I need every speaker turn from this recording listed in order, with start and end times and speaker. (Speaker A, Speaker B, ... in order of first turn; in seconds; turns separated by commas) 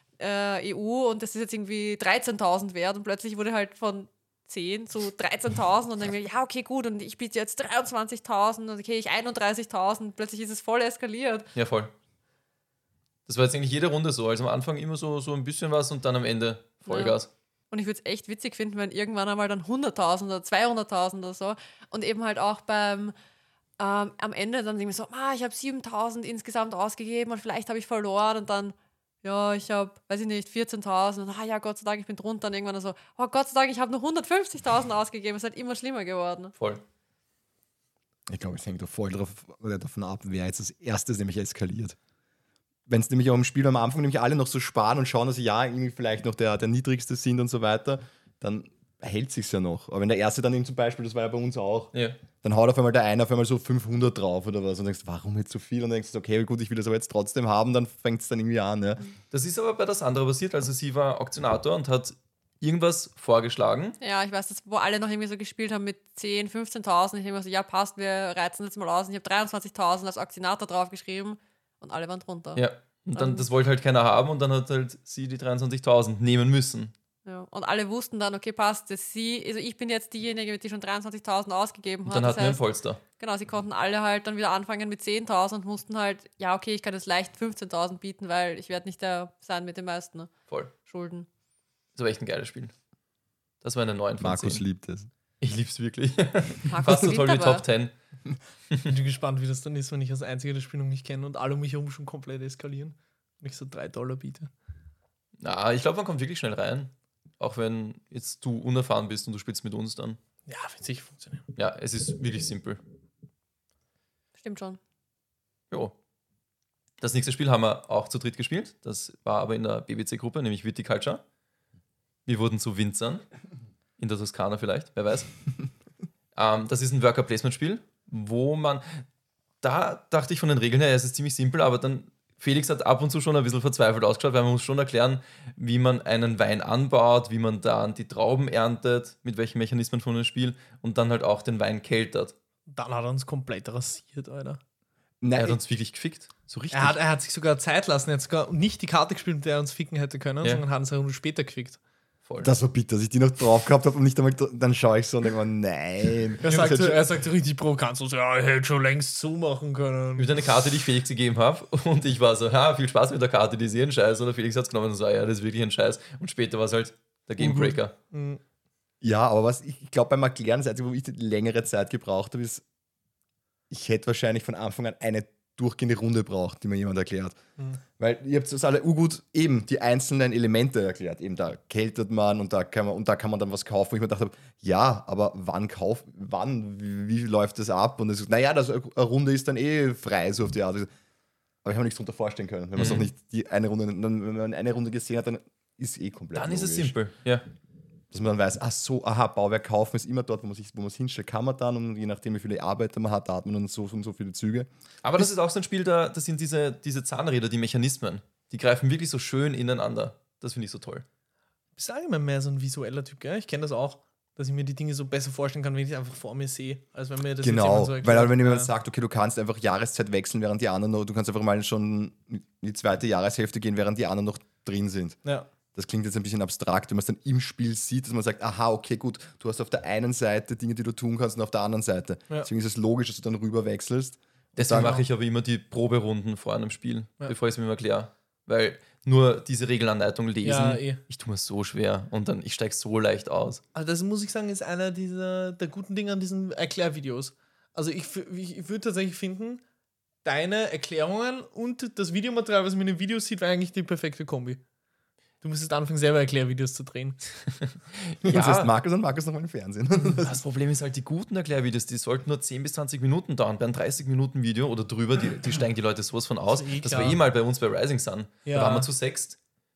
Speaker A: 0.2-11.5, Speaker B: 11.5-11.9, Speaker B: 13.3-17.3, Speaker A: 16.9-17.2, Speaker A: 17.7-23.1, Speaker A: 23.8-36.5, Speaker B: 36.6-36.8, Speaker C: 38.3-42.0, Speaker C: 42.9-59.0, Speaker B: 51.9-52.2, Speaker B: 59.3-64.0, Speaker A: 64.0-72.6, Speaker B: 72.5-76.9, Speaker A: 73.1-73.5, Speaker A: 77.2-82.6, Speaker B: 82.0-83.0, Speaker A: 83.2-90.3, Speaker A: 90.8-91.3, Speaker B: 92.0-92.7, Speaker B: 93.6-94.6, Speaker C: 94.2-95.1, Speaker B: 95.4-97.9, Speaker A: 96.7-97.6, Speaker D: 98.9-104.5, Speaker B: 105.4-110.2, Speaker D: 110.5-111.5, Speaker B: 111.5-112.8, Speaker A: 114.4-114.8, Speaker B: 117.0-121.2, Speaker B: 122.2-123.2, Speaker B: 124.0-125.3, Speaker B: 126.3-129.0, Speaker B: 129.6-142.3, Speaker D: 142.7-144.6, Speaker C: 145.2-145.6, Speaker B: 145.3-147.0, Speaker D: 146.7-151.8, Speaker B: 152.2-152.5, Speaker C: 152.4-157.0, Speaker D: 156.4-160.3, Speaker B: 160.2-167.9, Speaker D: 167.4-168.4, Speaker C: 169.0-172.6, Speaker C: 173.7-177.4, Speaker C: 178.0-190.9, Speaker C: 191.6-196.9, Speaker B: 192.8-193.1, Speaker B: 196.3-197.4, Speaker C: 198.1-204.7, Speaker B: 205.0-211.0, Speaker D: 211.8-218.7, Speaker C: 217.4-225.2, Speaker C: 225.7-235.0, Speaker B: 234.6-243.6, Speaker D: 234.7-235.0, Speaker D: 240.4-241.0, Speaker D: 243.7-249.6, Speaker D: 250.2-254.6, Speaker D: 255.4-257.2, Speaker B: 257.6-258.7, Speaker C: 258.2-260.4, Speaker B: 260.2-269.4, Speaker D: 266.5-267.2, Speaker D: 268.4-268.9